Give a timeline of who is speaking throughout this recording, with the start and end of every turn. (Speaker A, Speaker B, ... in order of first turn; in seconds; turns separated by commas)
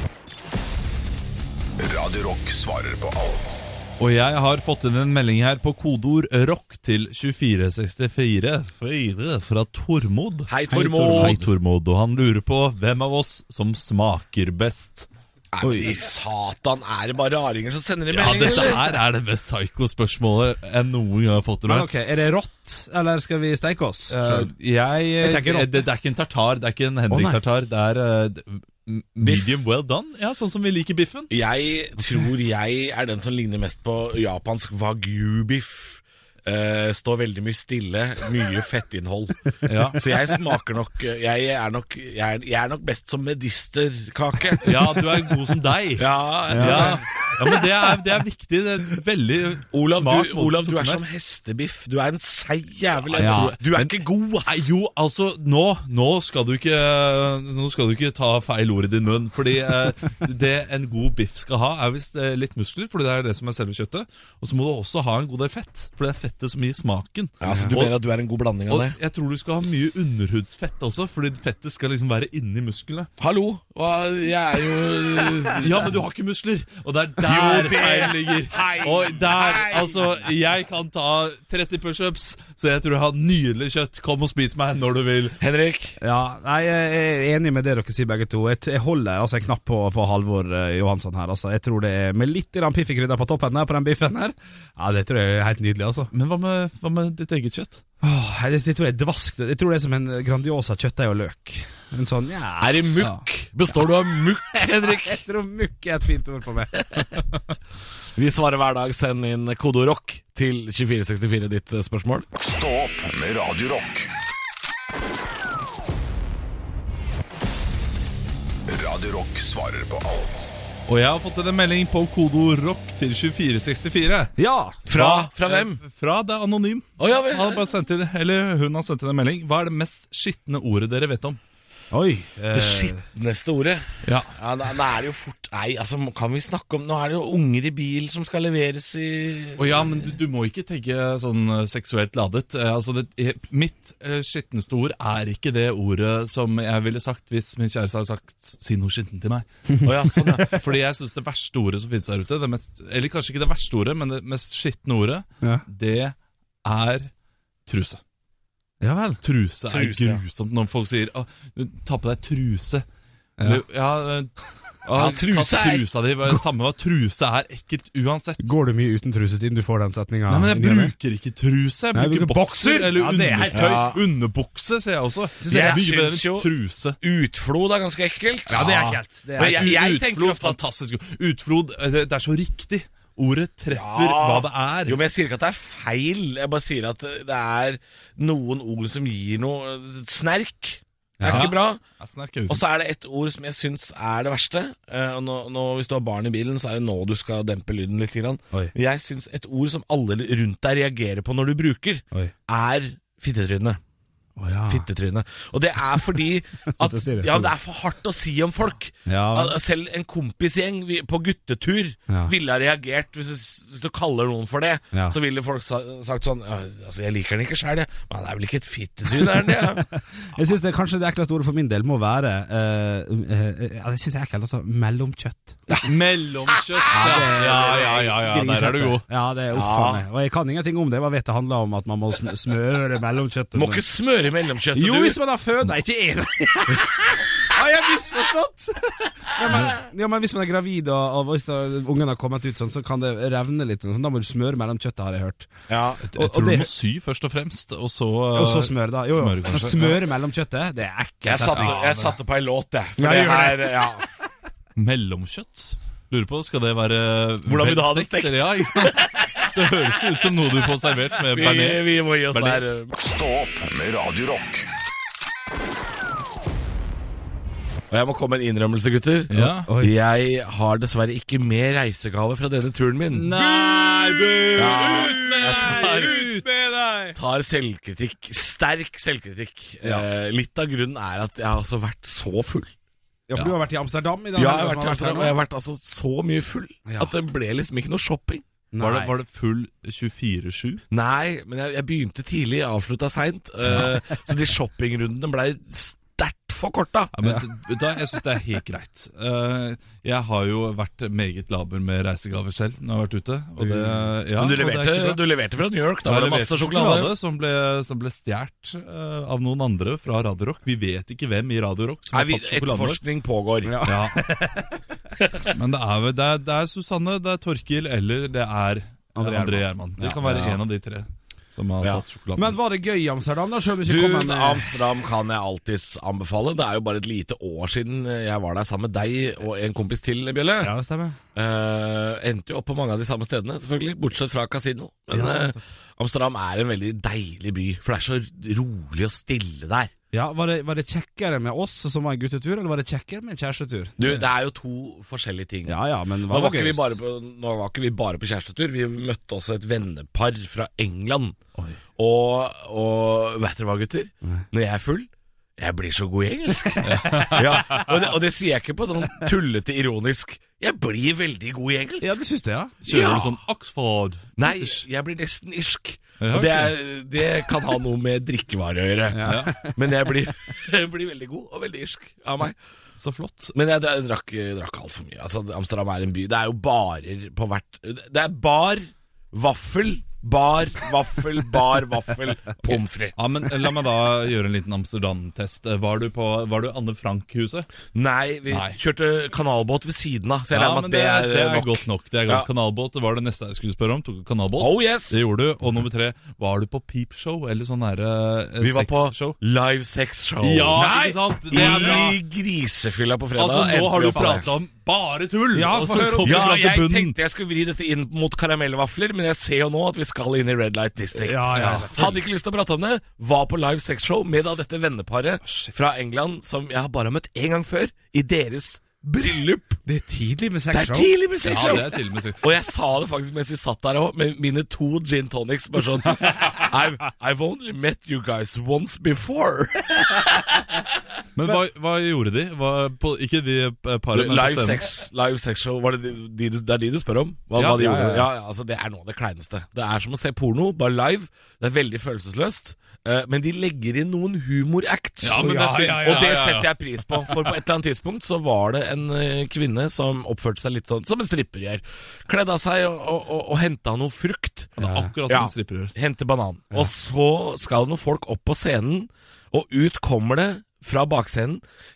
Speaker A: 1.8-3.8, Speaker B: 4.0-15.1, Speaker C: 10.5-11.5, Speaker C: 15.5-18.8, Speaker D: 15.6-15.9, Speaker B: 18.1-21.9, Speaker D: 18.1-18.8, Speaker D: 21.6-24.5, Speaker B: 24.1-31.3, Speaker D: 25.2-25.9, Speaker D: 27.1-27.4, Speaker C: 29.2-29.5, Speaker C: 31.3-44.7, Speaker B: 39.6-40.0, Speaker B: 44.6-51.0, Speaker C: 46.0-47.3, Speaker D: 46.5-47.0, Speaker C: 49.7-54.7, Speaker B: 53.1-68.0, Speaker D: 53.2-53.5, Speaker C: 67.4-69.0, Speaker D: 67.4-67.7, Speaker B: 68.7-73.1, Speaker C: 73.2-75.9, Speaker B: 75.6-85.4, Speaker C: 77.2-80.0, Speaker C: 85.4-86.0, Speaker D: 86.0-96.1, Speaker B: 96.1-97.8, Speaker D: 98.0-103.2, Speaker C: 102.6-105.2, Speaker D: 104.5-107.2, Speaker C: 108.2-112.3, Speaker A: 112.3-114.1, Speaker A: 118.7-120.6, Speaker B: 120.9-124.3, Speaker D: 124.4-124.8, Speaker C: 124.9-125.8, Speaker B: 124.9-131.4, Speaker C: 127.0-127.6, Speaker D: 131.9-133.0, Speaker C: 132.5-139.9, Speaker B: 134.0-134.3, Speaker B: 139.6-149.4, Speaker D: 149.7-150.6, Speaker C: 149.8-150.6, Speaker B: 150.5-157.1, Speaker B: 157.7-158.0, Speaker D: 158.8-159.2, Speaker B: 159.2-162.8, Speaker C: 159.7-160.2, Speaker B: 163.4-168.5, Speaker C: 164.9-165.8, Speaker D: 168.4-170.9, Speaker B: 170.3-176.9, Speaker D: 171.9-173.9, Speaker C: 173.5-174.0, Speaker D: 175.4-175.9, Speaker C: 175.5-178.7, Speaker D: 178.5-179.7, Speaker B: 178.5-185.0, Speaker C: 179.3-180.6, Speaker C: 183.7-191.8, Speaker D: 191.2-191.5, Speaker B: 191.2-192.6, Speaker C: 192.5-203.8, Speaker D: 204.4-204.8, Speaker C: 204.7-219.9, Speaker D: 206.8-207.5, Speaker D: 209.1-209.6, Speaker D: 219.4-225.9, Speaker B: 225.8-229.0, Speaker C: 226.9-227.8, Speaker D: 226.9-233.8, Speaker C: 229.5-230.0, Speaker C: 233.5-235.2, Speaker D: 234.7-245.5, Speaker C: 245.7-246.0, Speaker D: 246.0-246.7, Speaker B: 246.1-250.0, Speaker D: 248.3-251.8, Speaker C: 251.3-254.0, Speaker B: 251.4-252.2, Speaker D: 253.0-253.8, Speaker B: 254.8-262.7, Speaker C: 257.5-259.5, Speaker C: 261.3-262.9, Speaker A: 263.0-264.6, Speaker C: 267.9-273.3, Speaker B: 269.3-269.7, Speaker D: 269.6-269.9, Speaker B: 273.1-276.4, Speaker D: 273.4-277.2, Speaker C: 274.6-276.1, Speaker C: 277.1-282.7, Speaker D: 283.3-285.3, Speaker C: 284.3-288.4, Speaker D: 286.9-287.1, Speaker D: 288.7-289.1, Speaker B: 288.8-290.8, Speaker C: 290.9-297.1, Speaker B: 297.1-305.2, Speaker D: 303.8-304.0, Speaker C: 304.4-307.1, Speaker B: 306.0-313.0, Speaker C: 312.1-313.8, Speaker D: 313.6-314.8, Speaker B: 313.8-314.2, Speaker B: 315.5-322.6, Speaker D: 319.1-320.6, Speaker D: 322.4-324.8, Speaker C: 323.8-330.7, Speaker D: 330.6-331.2, Speaker C: 331.3-339.9, Speaker D: 335.1-335.6, Speaker D: 340.1-344.2, Speaker C: 344.0-345.8, Speaker D: 345.6-346.9, Speaker C: 346.3-351.4, Speaker C: 352.0-362.2, Speaker D: 356.6-357.3, Speaker B: 356.8-357.9, Speaker D: 362.0-362.8, Speaker B: 362.8-364.7, Speaker C: 362.9-363.3, Speaker C: 364.4-372.6, Speaker B: 366.2-366.7, Speaker D: 369.1-369.8, Speaker B: 369.2-369.5, Speaker B: 373.0-373.5, Speaker C: 373.5-383.1, Speaker B: 382.7-387.7, Speaker C: 387.9-392.5, Speaker B: 388.5-388.8, Speaker B: 390.5-399.4, Speaker C: 394.6-395.2, Speaker C: 398.6-404.5, Speaker B: 400.4-402.1, Speaker D: 400.8-402.1, Speaker B: 403.4-407.1, Speaker D: 405.5-406.6, Speaker C: 406.2-419.8, Speaker D: 411.1-412.2, Speaker B: 411.6-411.8, Speaker B: 415.4-415.7, Speaker D: 419.8-421.7, Speaker C: 420.7-430.6, Speaker B: 421.4-422.4, Speaker B: 431.4-434.9, Speaker C: 434.1-454.8, Speaker B: 437.6-438.1, Speaker D: 437.7-438.3, Speaker B: 445.2-447.3, Speaker D: 445.3-446.3, Speaker B: 454.8-455.9, Speaker D: 454.8-455.1, Speaker C: 455.3-461.6